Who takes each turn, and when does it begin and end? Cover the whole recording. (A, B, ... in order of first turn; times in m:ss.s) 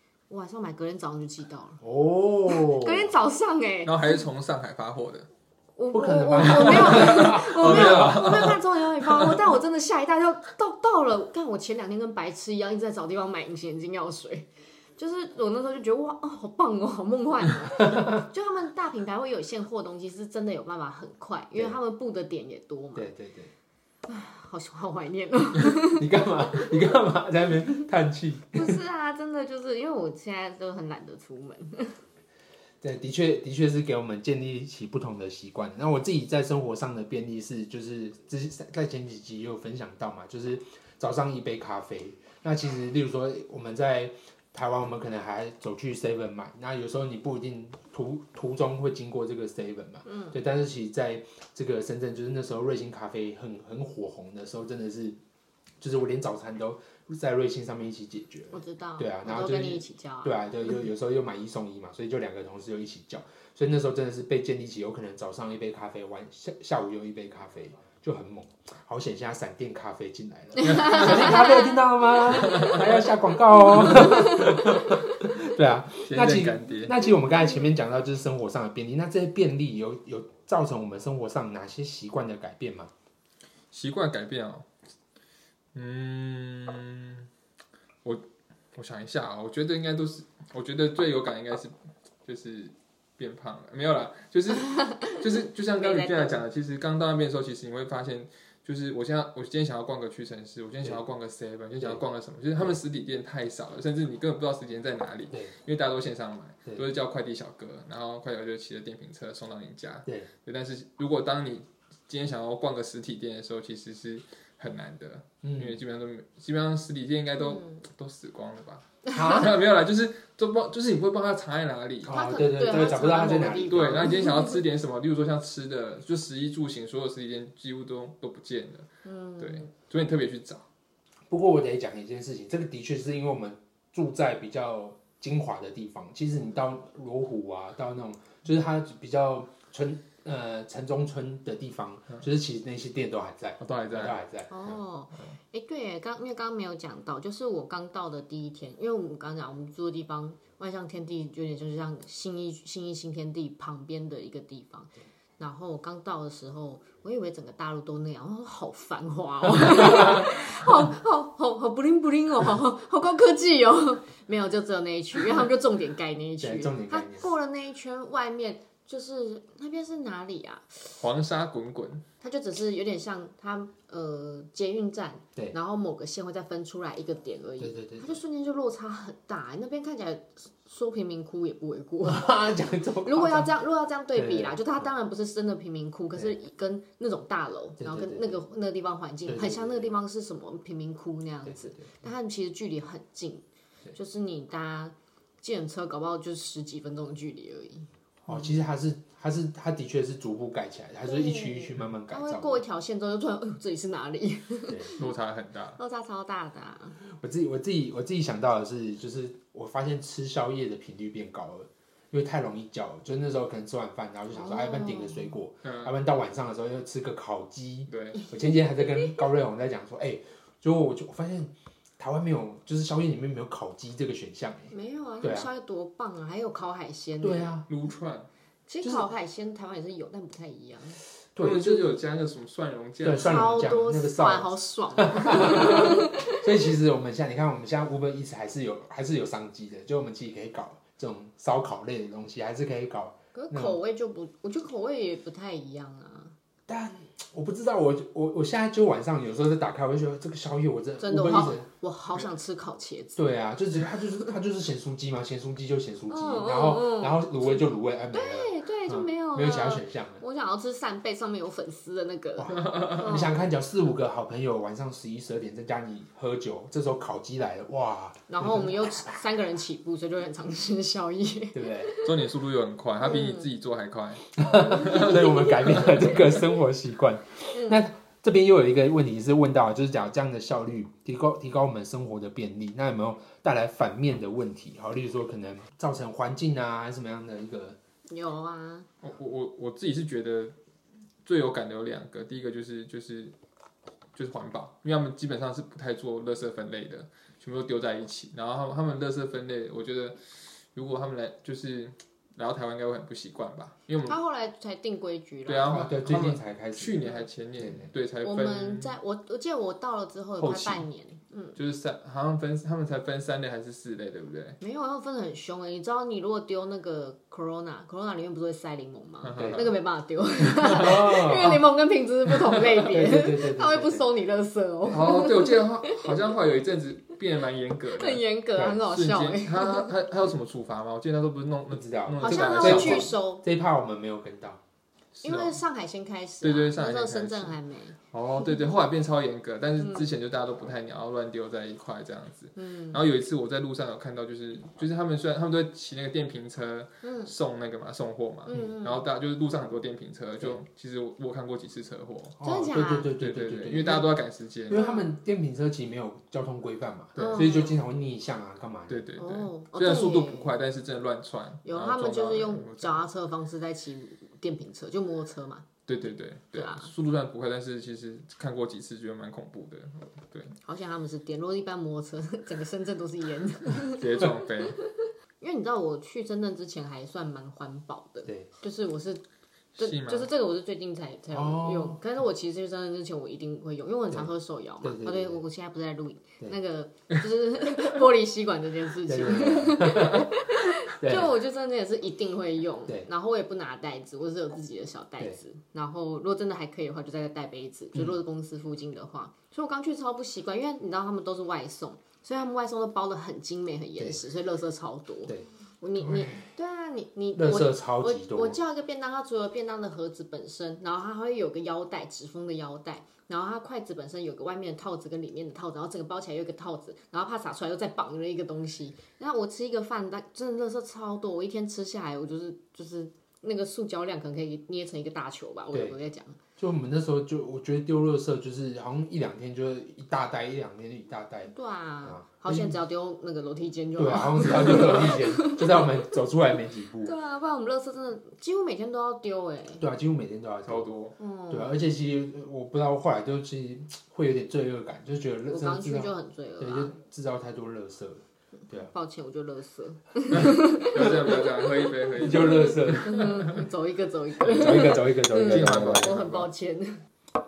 0:00.3-0:01.8 A
0:01.8-0:03.1 B
0:02.5-0:04.0 A
0:03.8-0:05.3 C
0:05.8-0:23.1 A
0:05.9-0:08.4 B
0:06.4-0:09.3 C
0:17.8-0:18.2 B
0:22.9-0:23.5 B
0:24.0-0:26.7 A
0:25.7-0:28.8 B
0:28.5-0:32.0 A
0:32.8-0:55.2 B
0:50.0-0:50.4 A
0:55.8-1:22.9 B
0:58.5-1:00.4 A
1:10.6-1:11.8 A
1:10.7-1:11.1 C
1:12.5-1:12.8 C
1:13.8-1:14.8 A
1:16.0-1:17.0 C
1:23.7-1:24.6 C
1:25.7-1:27.3 C
1:28.7-1:31.7 C
1:32.2-2:02.2 C
1:34.8-1:35.2 A
1:35.8-1:36.4 A
1:55.4-1:55.8 B
1:57.4-1:57.8 A
1:59.1-1:59.5 B
2:02.0-2:04.2 B
2:02.1-2:04.6 A
2:03.7-2:10.6 C
2:09.0-2:09.7 A
2:11.3-2:24.5 B
2:23.6-2:24.2 C
2:24.5-2:50.9 A
2:46.4-2:47.3 B
2:51.0-2:52.0 C
2:52.2-3:18.4 A
2:57.6-2:58.2 B
3:02.0-3:03.5 B
3:04.1-3:04.8 B
3:07.8-3:08.4 B
3:09.2-3:09.9 B
3:11.4-3:12.0 B
3:18.2-3:22.6 B
3:21.0-3:25.1 A
3:24.7-3:25.0 B
3:25.0-3:25.8 C
3:25.8-3:27.0 A
3:27.0-3:45.5 B
3:34.3-3:35.3 A
3:35.6-3:35.9 C
3:37.9-3:38.2 C
3:44.7-3:47.5 A
3:47.2-3:47.6 B
3:47.7-3:48.3 C
3:48.7-3:51.0 A
3:51.3-3:52.0 B
3:51.4-3:53.5 C
3:53.0-4:03.8 B
3:53.2-3:56.4 A
4:03.3-4:06.3 A
4:06.7-4:11.7 B
4:11.0-4:13.2 A
4:13.2-4:20.2 B
4:16.1-4:17.2 A
4:18.1-4:23.3 A
4:22.4-4:29.0 B
4:22.6-4:23.0 C
4:28.3-4:32.3 A
4:31.5-4:31.9 B
4:32.0-4:35.9 C
4:33.0-4:33.5 A
4:34.4-4:47.8 B
4:34.9-4:35.8 A
4:37.5-4:37.8 A
4:48.1-4:48.9 A
4:49.0-4:50.5 C
4:51.2-4:53.3 C
4:54.1-5:00.2 C
5:00.7-5:04.2 C
5:04.0-5:05.9 A
5:05.4-5:08.9 C
5:05.7-5:07.9 B
5:08.2-5:11.6 A
5:10.4-5:10.8 C
5:11.5-5:14.6 C
5:14.6-5:26.3 A
5:19.2-5:19.8 C
5:19.4-5:19.7 B
5:20.6-5:21.6 B
5:22.8-5:24.1 B
5:24.9-5:28.2 C
5:28.0-5:29.9 A
5:28.6-5:28.8 B
5:28.8-5:33.1 C
5:31.7-5:34.6 B
5:32.2-5:33.4 A
5:35.2-5:35.6 C
5:35.2-5:38.0 A
5:36.4-5:37.6 C
5:38.1-5:52.4 C
5:39.8-5:40.1 A
5:42.6-5:43.0 A
5:47.0-5:47.3 A
5:48.5-5:49.0 A
5:48.5-5:48.8 B
5:52.4-5:54.1 B
5:52.4-5:53.1 A
5:53.2-5:54.9 C
5:54.7-5:59.0 B
5:54.7-5:55.1 A
5:57.2-5:57.6 C
5:57.2-5:57.8 A
5:58.9-6:03.0 C
5:59.2-6:00.6 A
6:01.6-6:05.8 A
6:05.9-6:10.5 C
6:06.5-6:06.9 A
6:10.6-6:19.2 A
6:13.9-6:14.8 C
6:18.2-6:18.5 B
6:19.8-6:20.3 C
6:19.8-7:06.4 A
6:21.3-6:22.0 B
6:24.8-6:25.4 B
6:29.0-6:30.3 B
6:31.0-6:31.4 B
6:44.0-6:44.2 B
6:45.3-6:46.5 B
6:47.3-6:48.6 B
7:05.7-7:06.0 B
7:06.6-7:12.8 B
7:11.5-7:16.0 A
7:14.0-7:17.1 B
7:17.0-7:19.8 A
7:19.8-7:20.9 B
7:20.6-7:21.2 C
7:21.2-7:21.8 A
7:21.5-7:28.9 B
7:25.5-7:26.9 A
7:28.8-7:37.0 A
7:30.3-7:33.6 C
7:32.2-7:33.5 B
7:34.4-7:36.1 B
7:34.8-7:36.5 C